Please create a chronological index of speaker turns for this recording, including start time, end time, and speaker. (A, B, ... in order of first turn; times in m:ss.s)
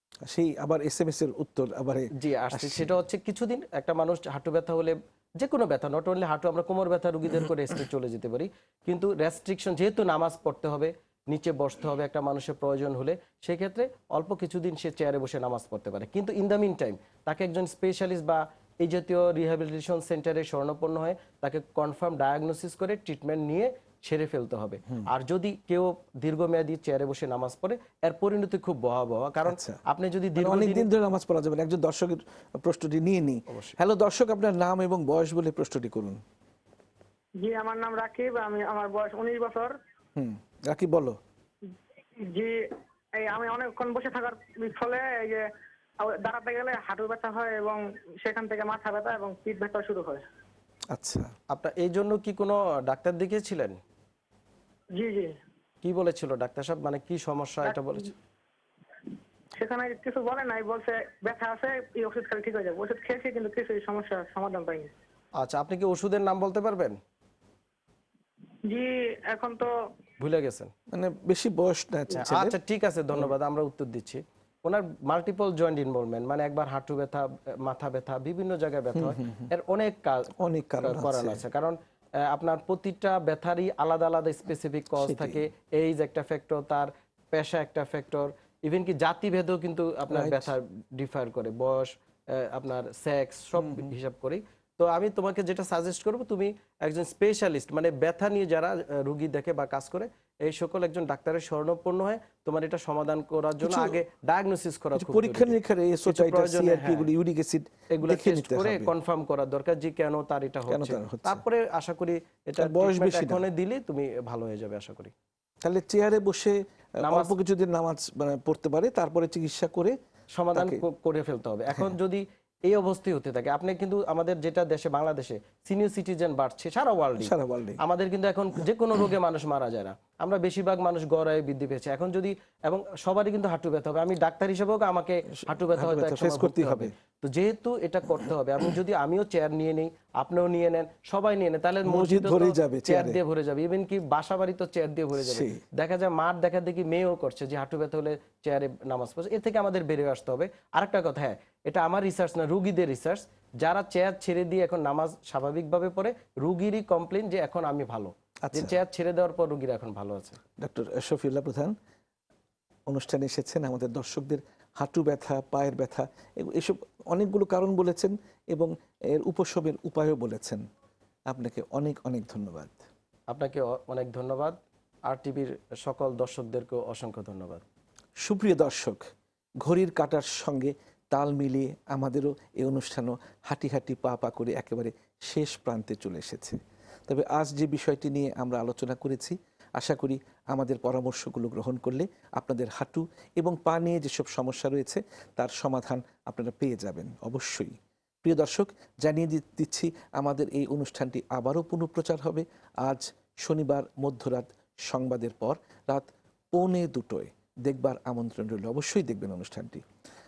0:00.2-0:03.0 A
0:02.2-0:30.9 B
0:29.4-0:29.8 A
0:30.4-0:36.2 A
0:33.5-0:33.8 B
0:37.4-0:39.7 C
0:40.2-0:41.2 A
0:41.7-0:42.6 C
0:43.2-0:45.4 C
0:46.0-0:50.2 C
0:50.9-0:51.3 A
0:51.5-0:53.8 B
0:55.0-0:55.3 C
0:55.8-0:58.1 B
0:59.6-1:04.9 C
1:05.4-1:07.0 B
1:08.7-1:09.7 C
1:10.2-1:10.7 B
1:10.9-1:12.6 A
1:12.2-1:47.1 B
1:18.9-1:19.5 A
1:20.4-1:21.4 A
1:25.0-1:25.4 A
1:30.1-1:30.5 A
1:33.6-1:33.9 A
1:43.6-1:44.0 A
1:45.0-1:48.9 A
1:47.9-1:55.1 B
1:50.7-1:51.4 A
1:52.6-1:53.5 A
1:55.6-2:00.0 A
1:57.0-1:57.4 B
2:00.4-2:40.4 B
2:00.6-2:00.8 A
2:07.2-2:07.8 A
2:15.4-2:16.9 A
2:21.8-2:23.2 A
2:25.2-2:25.6 A
2:38.4-2:38.8 A
2:40.6-2:41.7 A
2:42.9-2:50.6 A
2:51.3-2:52.8 A
2:53.3-2:57.6 B
2:58.2-2:59.0 A
2:59.6-3:29.8 A